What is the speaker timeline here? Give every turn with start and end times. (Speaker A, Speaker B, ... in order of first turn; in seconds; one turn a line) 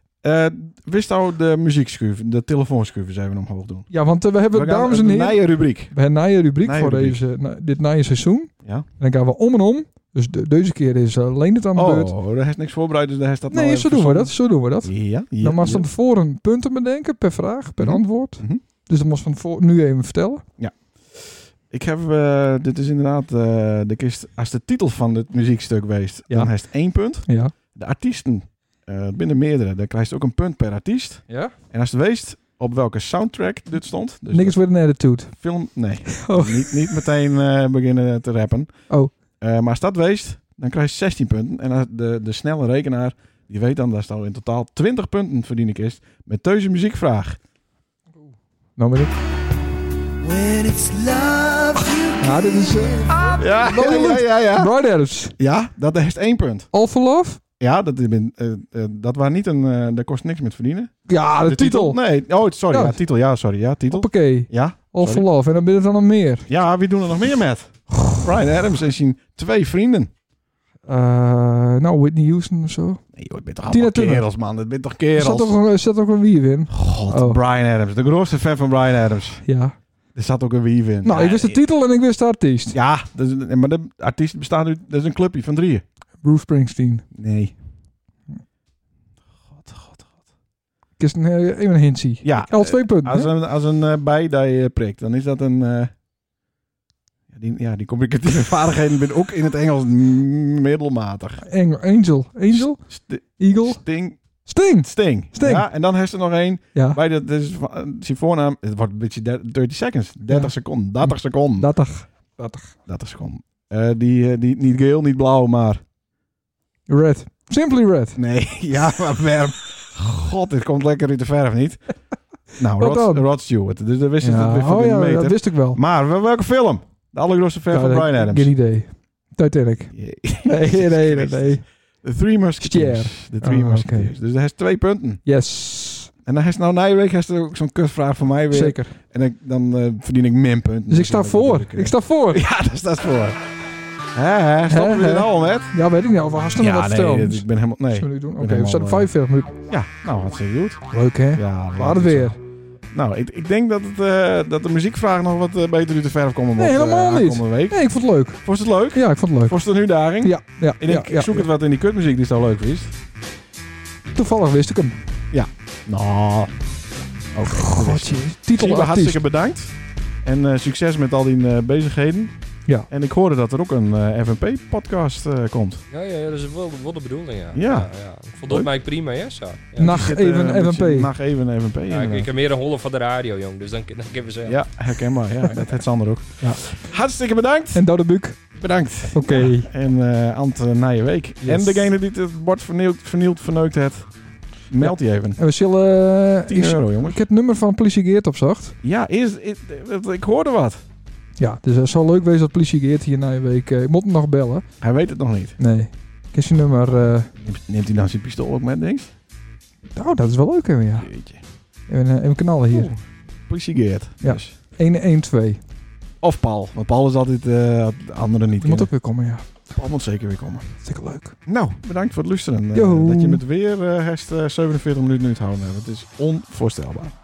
Speaker A: 0.2-3.9
Speaker B: 3.9-12.1
Speaker A: 4.5-5.9
Speaker A: 6.6-7.2
Speaker A: 11.7-15.9
Speaker B: 13.5-20.4
Speaker A: 17.8-18.6
Speaker A: 20.6-34.6
Speaker B: 27.2-27.5
Speaker B: 31.3-31.5
Speaker B: 34.3-35.4
Speaker A: 35.4-38.8
Speaker B: 36.1-36.9
Speaker A: 39.4-47.4
Speaker B: 48.8-49.1
Speaker A: 50.2-52.0
Speaker B: 52.2-55.4
Speaker A: 53.1-54.7
Speaker A: 55.4-56.7
Speaker B: 56.7-57.4
Speaker A: 57.6-65.2
Speaker B: 61.1-62.0
Speaker B: 62.7-63.0
Speaker B: 63.9-66.5
Speaker A: 66.5-70.1
Speaker B: 70.9-73.0
Speaker A: 73.1-75.5
Speaker B: 73.7-74.2
Speaker B: 75.2-77.4
Speaker A: 76.7-79.4
Speaker B: 79.4-79.8
Speaker A: 80.1-81.6
Speaker B: 81.0-82.8
Speaker A: 82.7-85.8
Speaker B: 86.2-87.0
Speaker A: 87.1-87.5
Speaker A: 89.5-90.1
Speaker B: 91.0-93.3
Speaker A: 92.2-95.9
Speaker A: 97.3-101.5
Speaker B: 101.4-102.8
Speaker A: 102.5-104.2
Speaker B: 103.4-103.8
Speaker B: 104.4-105.7
Speaker A: 104.8-111.7
Speaker B: 111.0-112.7
Speaker A: 112.8-115.8
Speaker B: 116.9-118.2
Speaker A: 118.2-121.8
Speaker A: 122.6-128.5
Speaker B: 122.8-123.2
Speaker B: 124.2-125.8
Speaker B: 127.7-131.6
Speaker A: 129.9-135.2
Speaker B: 132.6-134.1
Speaker B: 135.2-136.1
Speaker A: 136.2-143.4
Speaker B: 138.5-138.9
Speaker B: 140.9-142.4
Speaker A: 144.1-145.7
Speaker B: 144.7-149.6
Speaker A: 146.6-149.1
Speaker A: 149.7-150.8
Speaker B: 150.9-152.3
Speaker A: 151.3-152.3
Speaker A: 152.9-157.8
Speaker B: 156.6-158.4
Speaker A: 158.4-162.9
Speaker B: 158.9-159.6
Speaker B: 160.2-161.5
Speaker B: 164.1-165.0
Speaker A: 165.3-166.5
Speaker A: 167.3-172.3
Speaker B: 167.4-169.2
Speaker A: 172.9-175.8
Speaker C: 175.9-180.0
Speaker A: 177.5-177.9
Speaker B: 179.8-181.1
Speaker A: 179.8-182.3
Speaker C: 181.9-184.6
Speaker A: 184.4-187.8
Speaker B: 187.7-188.4
Speaker A: 188.5-194.1
Speaker B: 189.1-189.7
Speaker B: 191.4-191.8
Speaker A: 194.7-195.4
Speaker B: 194.8-198.8
Speaker A: 196.5-197.2
Speaker A: 198.8-200.8
Speaker B: 201.4-204.6
Speaker A: 204.8-205.6
Speaker B: 205.6-207.3
Speaker A: 207.4-209.1
Speaker B: 209.9-211.1
Speaker A: 211.0-211.4
Speaker B: 211.9-212.9
Speaker A: 212.7-214.5
Speaker B: 214.2-215.6
Speaker A: 216.2-218.9
Speaker B: 218.6-219.4
Speaker A: 219.7-220.8
Speaker B: 220.8-221.4
Speaker A: 221.5-227.1
Speaker B: 222.7-223.4